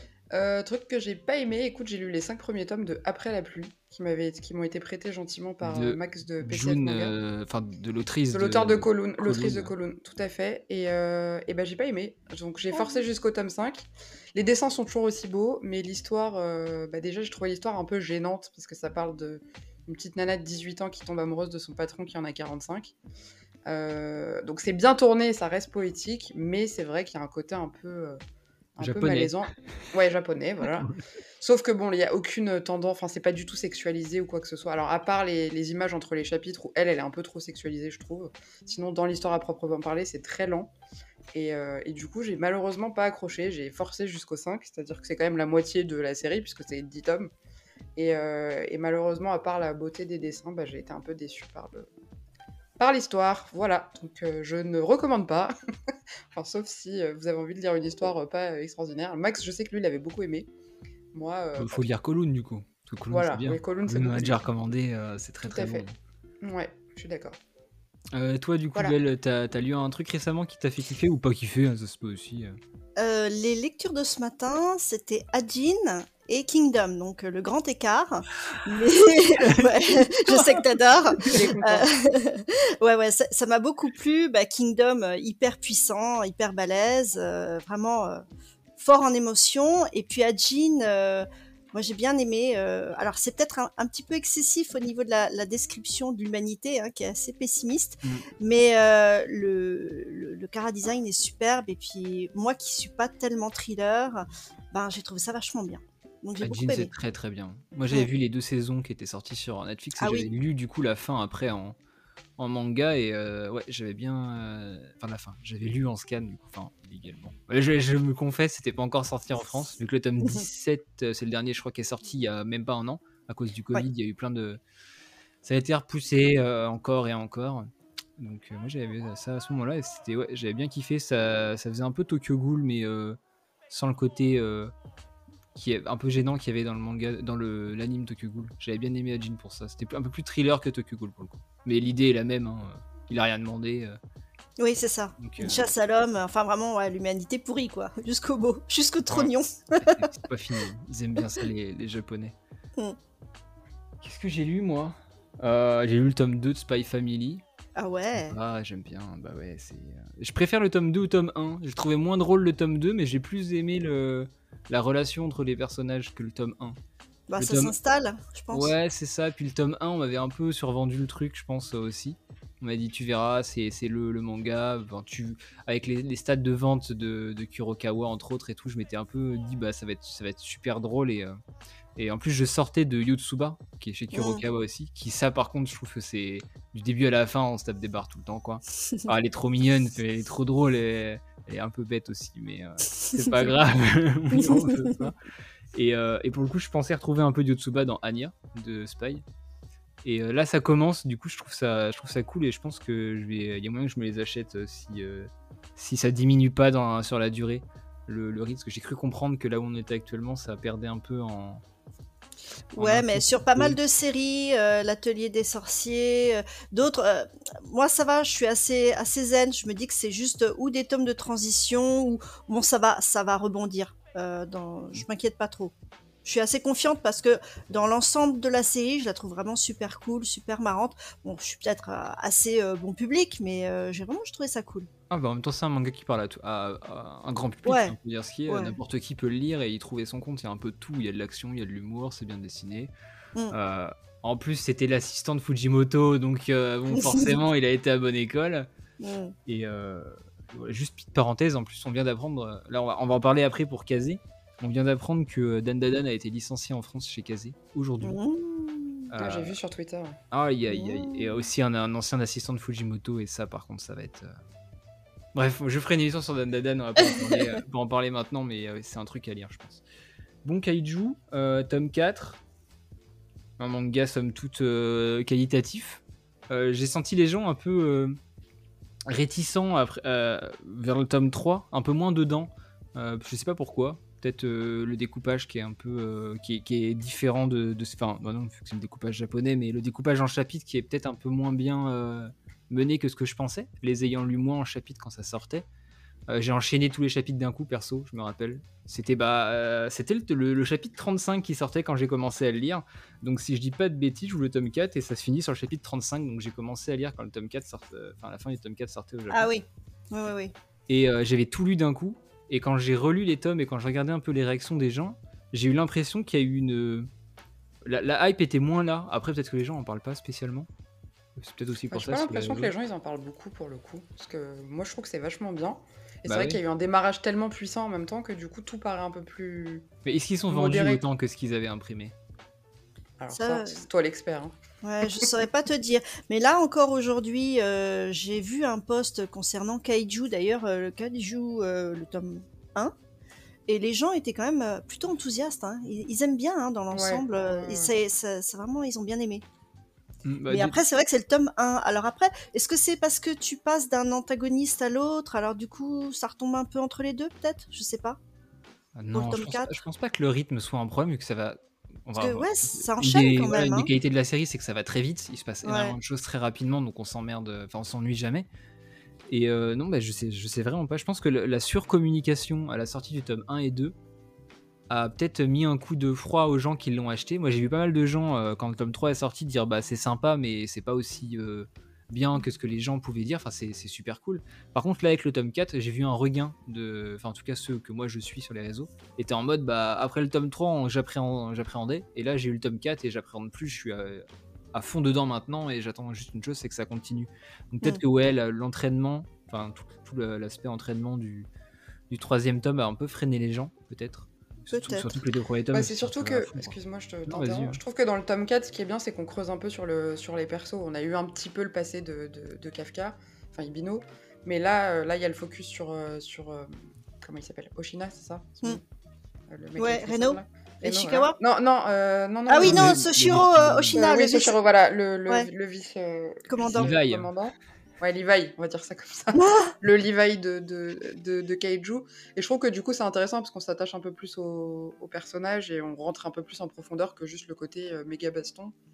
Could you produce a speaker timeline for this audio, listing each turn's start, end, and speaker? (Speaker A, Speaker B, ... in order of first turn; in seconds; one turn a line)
Speaker A: 0.3-7.1
Speaker B: 5.6-9.7
Speaker A: 8.3-22.9
Speaker C: 12.7-13.0
Speaker A: 23.6-28.2
Speaker A: 28.8-40.7
Speaker B: 28.8-29.4
Speaker A: 41.3-47.3
Speaker A: 48.0-51.9
Speaker A: 52.8-55.5
Speaker A: 56.3-60.5
Speaker A: 61.1-61.9
Speaker B: 61.6-65.9
Speaker A: 63.1-64.4
Speaker A: 65.4-65.8
Speaker A: 66.4-67.4
Speaker B: 68.1-72.5
Speaker C: 73.0-88.2
Speaker B: 79.3-79.7
Speaker A: 81.2-81.9
Speaker C: 88.8-106.9
Speaker B: 106.4-111.8
Speaker C: 110.0-110.3
Speaker B: 112.4-124.6
Speaker B: 125.4-133.2
Speaker B: 133.7-134.7
Speaker B: 135.5-144.0
Speaker C: 144.6-150.0
Speaker B: 145.2-145.7
Speaker B: 149.1-152.3
Speaker B: 154.0-157.4
Speaker C: 157.8-158.4
Speaker B: 158.1-166.8
Speaker C: 167.3-168.7
Speaker B: 167.4-167.7
Speaker B: 168.5-181.3
Speaker B: 181.9-195.2
Speaker C: 184.1-184.4
Speaker C: 194.3-194.9
Speaker B: 195.7-199.2
Speaker B: 200.0-211.6
Speaker C: 212.7-234.9
Speaker B: 212.8-213.8
Speaker B: 235.1-242.9
Speaker C: 237.6-237.9
Speaker C: 238.5-238.8
Speaker B: 243.5-248.7
Speaker C: 246.9-247.3
Speaker C: 249.0-249.3
Speaker B: 249.4-258.2
Speaker C: 258.0-259.1
Speaker B: 259.1-259.6
Speaker A: 259.2-260.2
Speaker B: 260.3-264.3
Speaker C: 260.7-261.4
Speaker B: 265.3-269.8
Speaker C: 267.0-267.6
Speaker B: 270.4-272.4
Speaker B: 273.6-278.2
Speaker B: 279.1-295.6
Speaker B: 296.3-309.5
Speaker C: 309.3-310.5
Speaker B: 310.9-317.1
Speaker B: 317.8-320.7
Speaker B: 321.4-322.7
Speaker A: 321.9-329.9
Speaker B: 326.2-326.6
Speaker B: 330.0-332.1
Speaker A: 330.5-331.0
Speaker A: 333.2-334.5
Speaker C: 333.3-333.8
Speaker C: 334.8-342.9
Speaker C: 343.7-349.4
Speaker A: 346.9-347.9
Speaker B: 350.2-350.8
Speaker C: 350.5-358.2
Speaker B: 358.9-368.5
Speaker C: 359.1-359.7
Speaker C: 362.2-363.9
Speaker C: 365.6-366.0
Speaker B: 369.3-373.9
Speaker B: 374.9-401.5
Speaker B: 402.1-406.7
Speaker C: 404.7-405.2
Speaker A: 405.7-418.8
Speaker B: 407.3-407.8
Speaker A: 419.5-423.1
Speaker C: 419.8-421.4
Speaker C: 422.5-424.6
Speaker B: 422.6-424.1
Speaker A: 423.9-438.7
Speaker C: 426.5-426.9
Speaker B: 426.7-427.3
Speaker C: 429.3-429.7